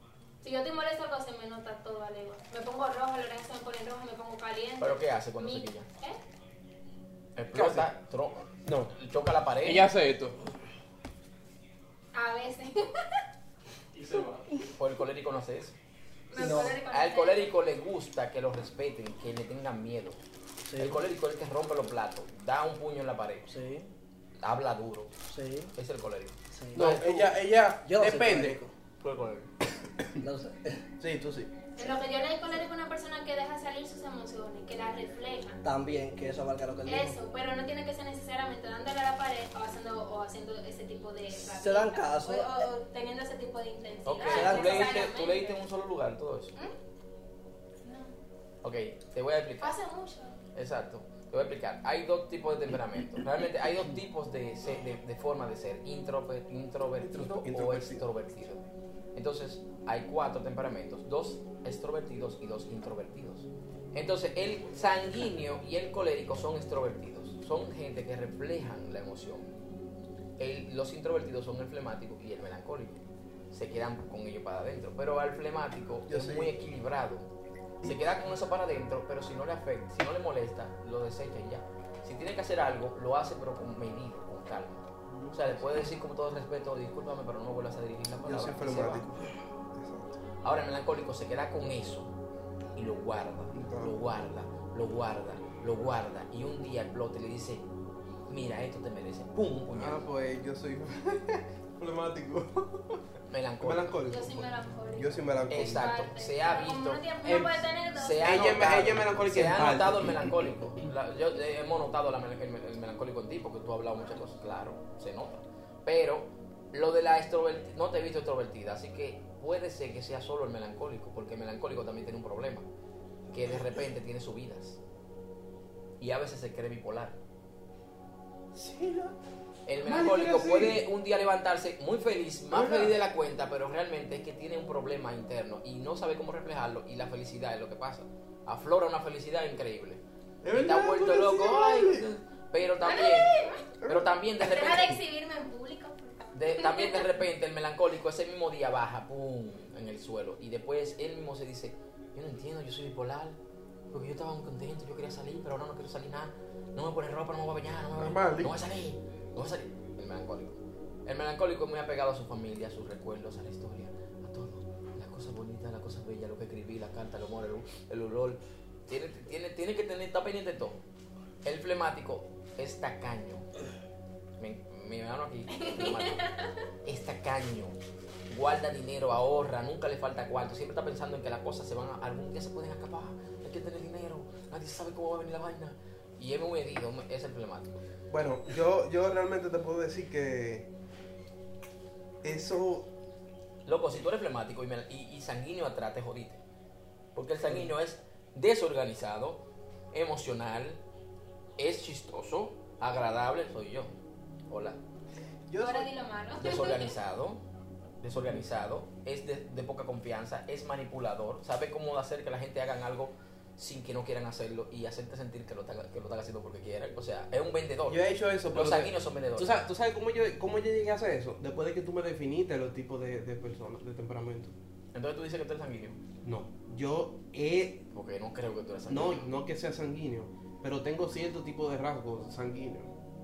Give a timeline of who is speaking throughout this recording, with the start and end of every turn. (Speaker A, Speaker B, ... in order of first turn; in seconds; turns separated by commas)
Speaker A: 0.4-6.2, Speaker B: 4.8-5.9, Speaker B: 7.4-9.9, Speaker C: 7.5-7.9, Speaker C: 8.7-8.9, Speaker C: 9.6-10.4, Speaker A: 12.1-13.2, Speaker C: 14.0-14.4, Speaker B: 14.8-15.8, Speaker A: 16.3-17.6, Speaker B: 16.3-20.2, Speaker D: 16.4-16.8, Speaker D: 20.7-21.0, Speaker B: 20.8-23.5, Speaker D: 23.5-23.9, Speaker B: 24.4-25.1, Speaker D: 25.3-25.7, Speaker B: 25.8-27.0, Speaker D: 26.5-27.3, Speaker C: 26.8-28.6, Speaker D: 27.8-28.7, Speaker B: 29.0-29.5, Speaker D: 30.2-30.8, Speaker C: 31.0-31.5, Speaker A: 31.8-35.6, Speaker D: 35.6-37.2, Speaker A: 36.9-45.6, Speaker D: 41.4-42.7, Speaker B: 44.1-46.6, Speaker D: 44.3-45.0, Speaker A: 47.8-48.1, Speaker B: 48.6-49.8, Speaker A: 49.6-50.4, Speaker B: 50.5-58.6, Speaker C: 57.0-58.1, Speaker B: 59.1-69.5, Speaker B: 70.4-77.3, Speaker C: 76.1-76.5, Speaker B: 77.8-89.1, Speaker C: 85.1-85.7, Speaker C: 88.2-90.2, Speaker B: 90.4-92.1, Speaker B: 92.8-97.7, Speaker C: 93.5-93.9, Speaker B: 98.3-100.1, Speaker C: 99.7-103.0, Speaker B: 103.3-103.9, Speaker C: 103.6-105.9, Speaker A: 104.1-108.5, Speaker B: 105.5-107.4, Speaker C: 107.2-107.7, Speaker B: 107.9-122.7, Speaker C: 108.2-110.8, Speaker B: 123.3-124.8, Speaker C: 123.3-123.6, Speaker B: 126.0-127.2, Speaker C: 128.5-129.2, Speaker B: 129.7-143.3, Speaker C: 129.8-130.8, Speaker C: 132.5-133.0, Speaker C: 140.4-142.1, Speaker A: 142.8-143.7, Speaker C: 143.8-144.2, Speaker B: 143.8-145.0, Speaker A: 144.4-147.1, Speaker B: 146.3-153.4, Speaker B: 153.9-170.8, Speaker C: 157.9-158.6, Speaker B: 171.4-173.5, Speaker B: 174.4-176.2, Speaker A: 175.5-176.5, Speaker B: 176.8-187.8, Speaker C: 188.1-190.7, Speaker C: 192.2-192.9, Speaker B: 193.7-196.4, Speaker B: 197.2-200.8, Speaker C: 197.5-197.7, Speaker B: 201.6-203.9, Speaker B: 204.5-204.8, Speaker C: 205.5-205.9, Speaker A: 205.6-207.0, Speaker B: 206.4-207.4, Speaker B: 208.0-219.7, Speaker C: 208.2-208.5, Speaker C: 217.9-224.6, Speaker B: 224.9-226.0, Speaker C: 226.2-227.8, Speaker B: 227.9-229.3, Speaker C: 228.9-232.9